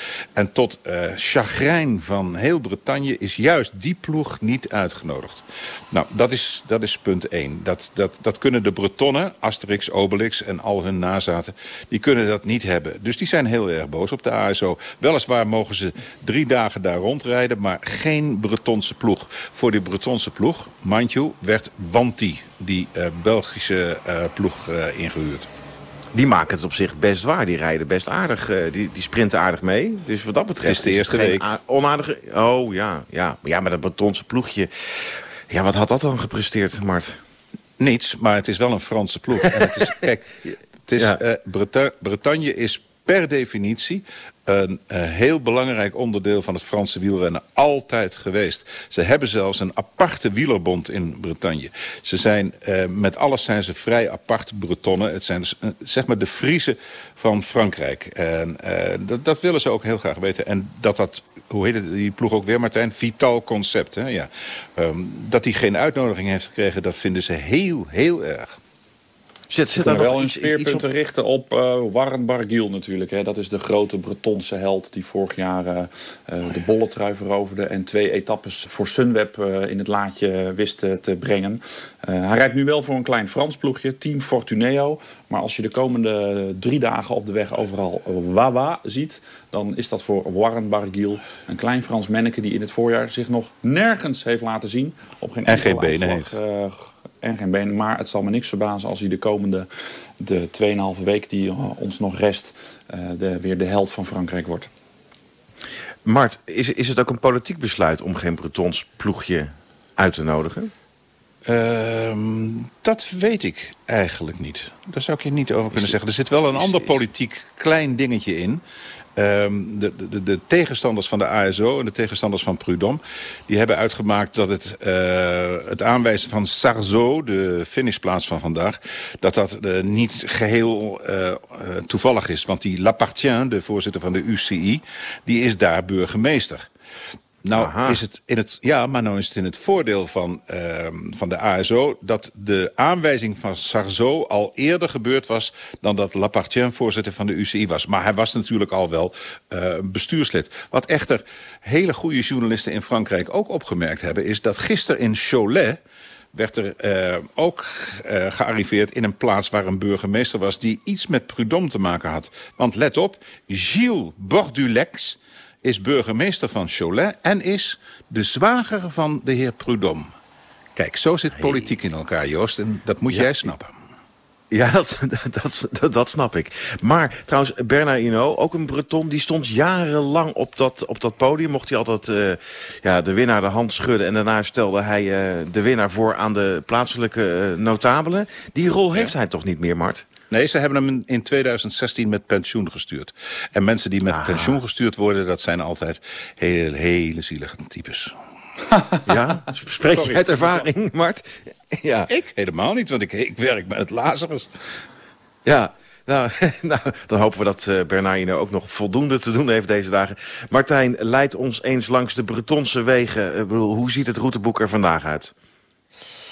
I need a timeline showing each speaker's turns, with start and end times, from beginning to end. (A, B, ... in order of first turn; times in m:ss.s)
0:00.4-0:25.5 A
0:26.1-0:37.2 B
0:30.6-0:31.5 A
0:37.8-1:08.6 A
1:09.5-1:10.9 B
1:09.8-1:39.7 C
1:35.5-1:36.4 A
1:40.2-1:44.7 C
1:46.0-1:50.7 B
1:51.5-1:58.6 A
1:56.6-1:57.0 B
1:59.2-2:16.7 A
2:17.4-2:35.8 A
2:17.6-2:18.0 B
2:36.3-2:50.1 A
2:50.8-2:53.7 A
2:54.5-3:10.0 B
3:10.3-3:18.1 A
3:14.1-3:14.6 B
3:19.1-3:22.1 B
3:19.9-3:20.6 A
3:22.1-3:24.5 A
3:25.4-3:35.3 B